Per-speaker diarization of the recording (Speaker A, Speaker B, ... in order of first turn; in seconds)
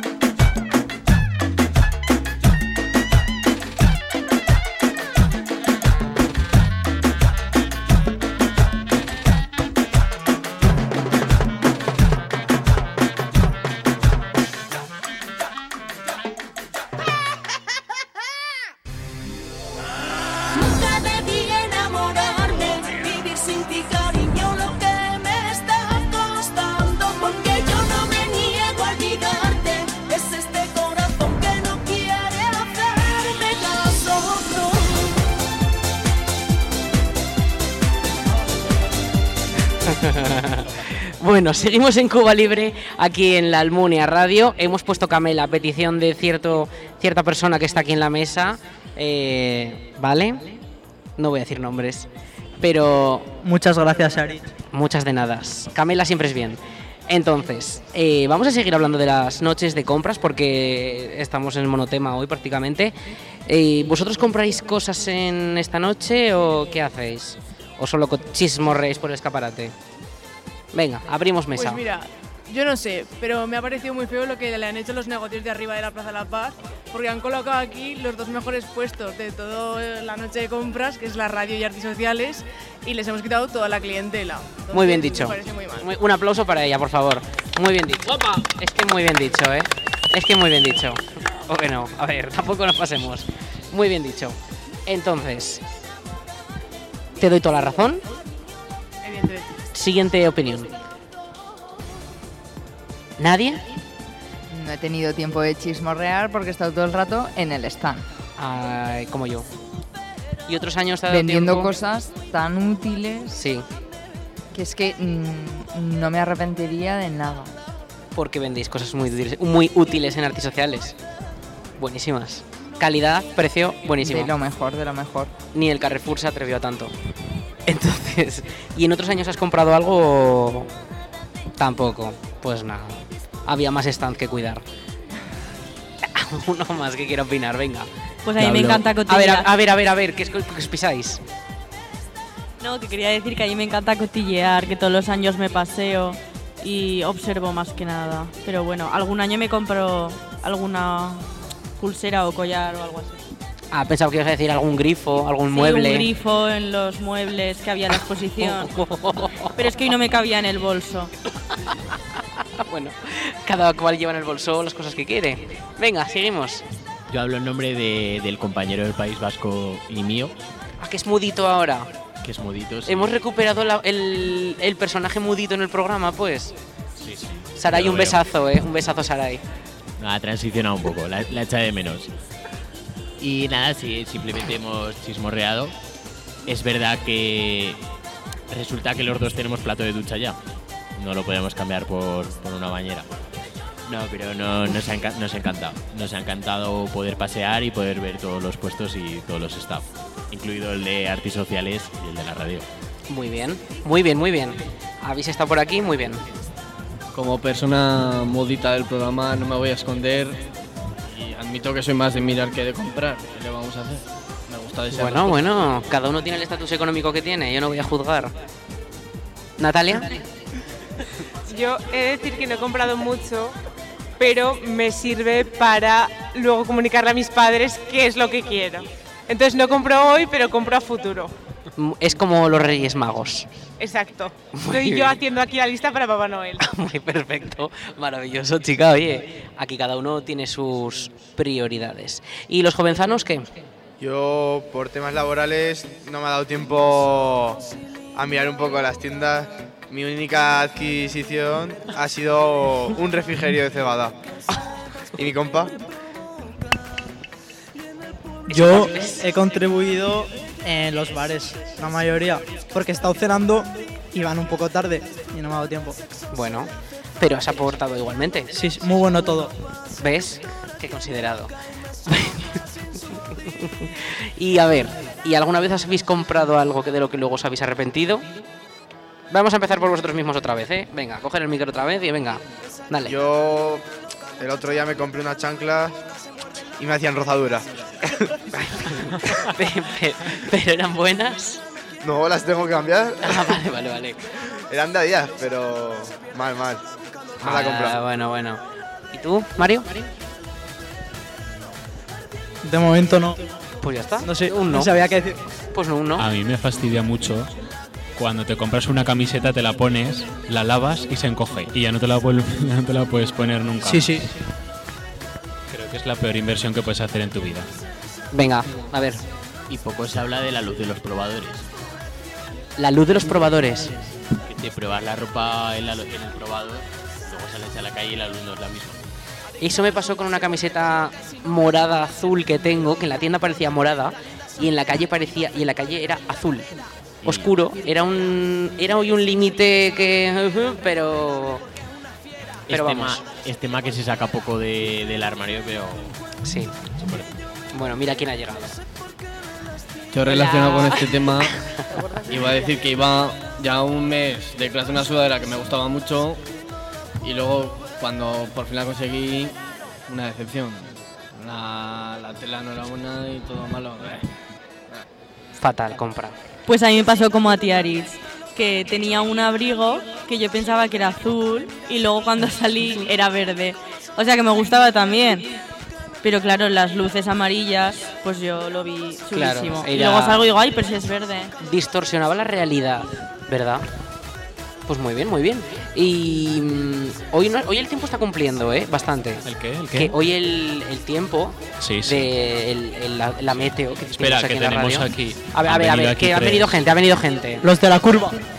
Speaker A: 20.5-35.0
Speaker B: 39.8-50.5, 51.2-52.1, 52.6-53.3, 54.7-62.9, 63.5-69.7, 70.7-71.8, 84.7-95.6, 97.2-98.0, 99.7-100.7, 103.2-103.6, 108.4-109.5, 110.5-111.7, 113.3-113.6, 118.1-120.9, 121.8-124.3, 125.5-126.9, 127.7-130.7, 131.6-134.6, 136.1-137.9, 138.6-141.2, 153.7-156.1, 158.4-159.5, 162.6-166.6, 170.8-171.9, 172.8-176.5, 177.6-179.4, 203.1-206.2, 214.9-218.3, 219.6-220.1, 231.8-233.5, 234.5-235.2, 236.6-243.4, 258.5-259.2, 266.3-268.5, 270.0-271.5, 272.1-272.6, 273.1-278.2, 279.3-283.1, 288.6-291.6, 293.2-294.2, 297.4-299.9, 303.8-304.9, 305.7-306.2, 318.3-319.2, 322.8-323.9, 329.6-336.7, 337.2-341.6, 342.7-343.2, 346.4-346.7, 347.7-348.8, 350.3-351.0, 365.6-366.4, 379.3-380.5, 381.6-383.8, 384.9-397.6
Speaker C: 53.4-54.4, 258.5-266.0, 268.5-269.5, 302.6-303.4, 304.2-305.4, 313.8-314.3, 397.6-398.4
Speaker D: 71.5-85.8, 99.0-99.5
Speaker E: 104.5-108.1, 111.1-113.4, 114.5-117.5, 124.0-125.3
Speaker F: 138.2-139.5, 142.6-151.2, 151.8-153.2, 155.5-158.7, 159.6-161.1, 366.7-375.4, 376.2-381.5
Speaker G: 167.1-170.3, 172.2-173.0, 180.0-182.1, 183.2-185.7, 186.4-187.8, 188.5-190.4, 190.9-193.1, 193.8-202.7, 319.7-321.6, 324.4-329.0, 337.2-337.5, 342.7-346.2, 347.0-347.3
Speaker H: 177.0-178.1, 306.2-307.5, 308.1-314.2, 315.7-317.7, 389.4-390.1, 391.8-392.3, 394.2-396.8
Speaker I: 207.1-210.4, 211.1-215.5, 350.1-351.5, 352.3-356.4, 357.2-364.3
Speaker J: 221.4-223.6, 224.2-231.3, 233.8-236.6
Speaker K: 244.0-247.6, 248.1-254.2, 255.2-255.7, 283.1-283.8, 284.4-286.0, 286.8-287.7, 292.0-293.4, 294.7-296.8, 297.4-298.0